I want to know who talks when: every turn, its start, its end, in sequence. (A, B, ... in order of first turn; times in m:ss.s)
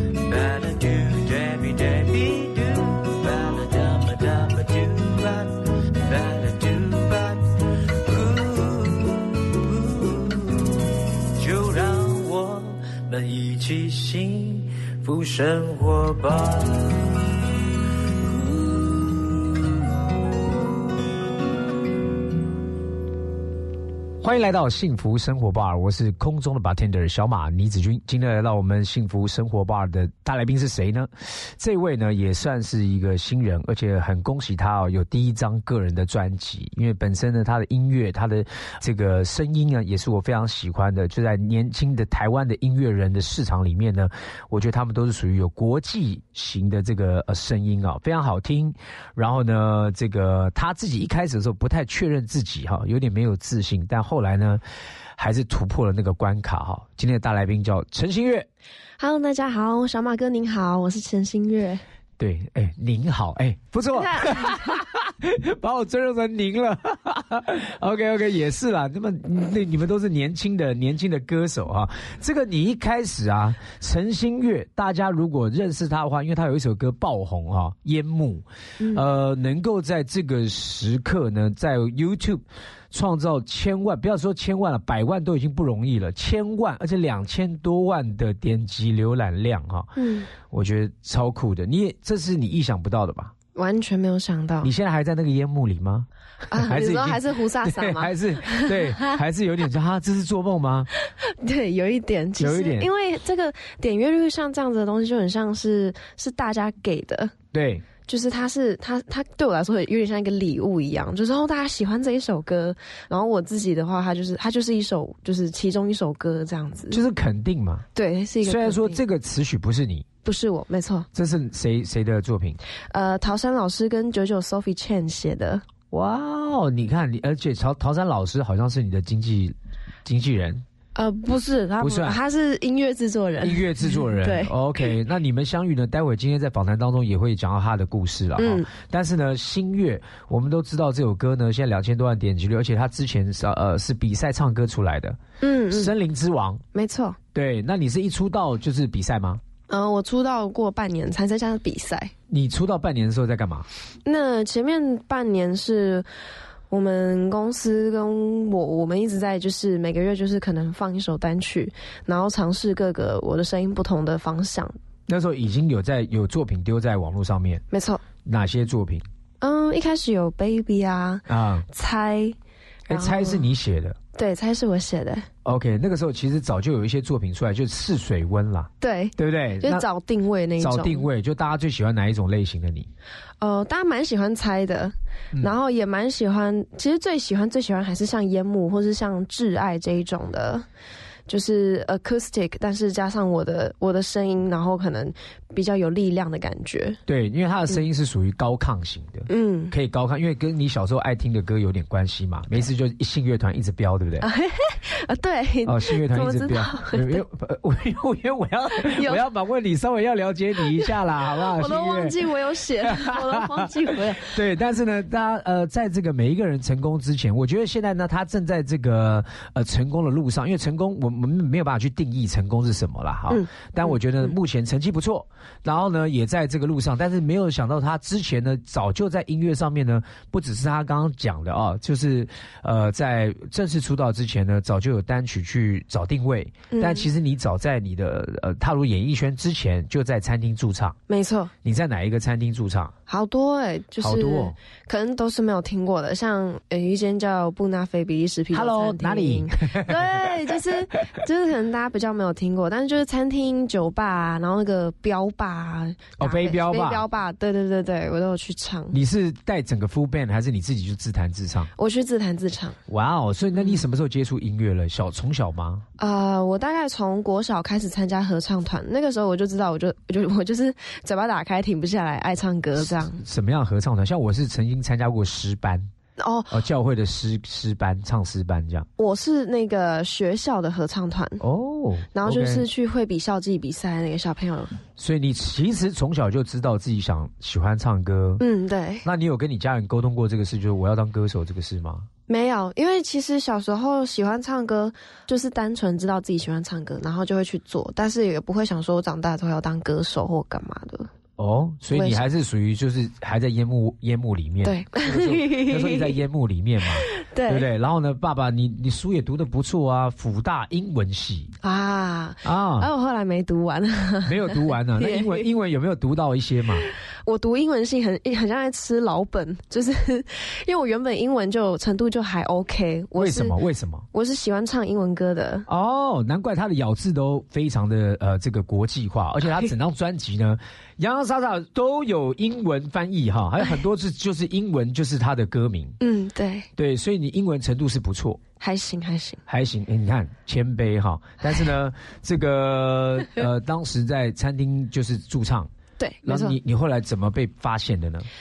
0:00.2-0:07.4 A
0:08.1-0:09.0 A
0:09.8-0:10.4 A
0:11.4-0:16.8 A
0:24.2-0:54.6 B
0:55.2-0:58.5 B
0:59.0-1:01.8 C
1:02.2-1:33.3 B
1:03.9-1:04.8 C
1:30.0-1:30.3 C
1:33.5-1:34.7 C
1:34.6-1:40.9 B
1:36.5-1:39.1 C
1:41.3-1:47.3 C
1:42.4-1:42.9 B
1:47.5-1:47.8 B
1:48.1-1:57.0 C
1:56.9-1:57.8 B
1:57.9-1:59.0 C
1:58.4-2:00.0 B
2:00.2-2:01.1 C
2:01.1-2:02.6 B
2:02.9-2:05.6 C
2:05.9-2:10.6 B
2:10.9-2:14.5 C
2:11.8-2:12.2 B
2:13.4-2:25.2 B
2:18.4-2:18.7 C
2:25.4-2:25.9 C
2:25.7-2:26.6 B
2:26.7-2:27.2 C
2:27.3-2:29.4 B
2:29.7-2:32.1 C
2:32.3-2:33.7 B
2:34.0-2:36.1 C
2:36.7-2:44.8 C
2:45.1-2:47.6 B
2:47.7-2:48.0 C
2:48.2-2:49.0 B
2:49.4-2:52.4 C
2:51.3-2:51.6 B
2:52.9-2:53.4 C
2:52.9-2:54.0 B
2:54.1-2:55.3 C
2:55.4-2:59.8 B
2:58.8-3:01.1 C
3:00.6-3:02.9 B
3:03.4-3:10.6 C
3:11.3-3:17.0 C
3:17.1-3:24.2 B
3:19.3-3:19.7 C
3:24.2-3:27.2 C
3:25.6-3:32.2 B
3:28.8-3:29.2 C
3:31.6-3:34.4 C
3:32.8-4:01.0 B
3:43.3-3:44.0 C
3:56.7-3:57.1 C
4:01.1-4:01.5 C
4:01.6-4:02.9 B
4:03.1-4:19.0 C
4:04.0-4:04.6 B
4:08.5-4:10.2 B
4:16.2-4:17.0 B
4:18.9-4:21.7 B
4:21.8-4:22.8 C
4:22.9-4:25.8 B
4:26.0-4:33.2 C
4:32.8-4:35.9 B
4:36.2-4:36.5 C
4:36.5-4:38.9 B
4:39.0-4:41.4 C
4:41.4-4:42.6 B
4:42.1-4:44.8 C
4:45.0-4:48.4 B
4:48.4-4:49.0 C
4:49.0-4:52.1 B
4:52.3-5:01.1 C
5:01.4-5:11.5 B
5:01.9-5:02.2 C
5:04.6-5:06.2 C
5:07.1-5:07.7 C
5:11.6-5:15.5 C
5:12.4-5:12.9 B
5:14.2-5:16.8 B
5:17.2-5:23.5 C
5:23.2-5:24.1 B
5:24.1-5:25.6 C
5:25.7-5:36.0 B
5:36.0-5:36.7 C
5:36.8-5:38.4 B
5:38.6-5:39.4 C
5:39.5-5:45.7 B
5:46.0-5:46.6 C
5:46.2-5:48.3 B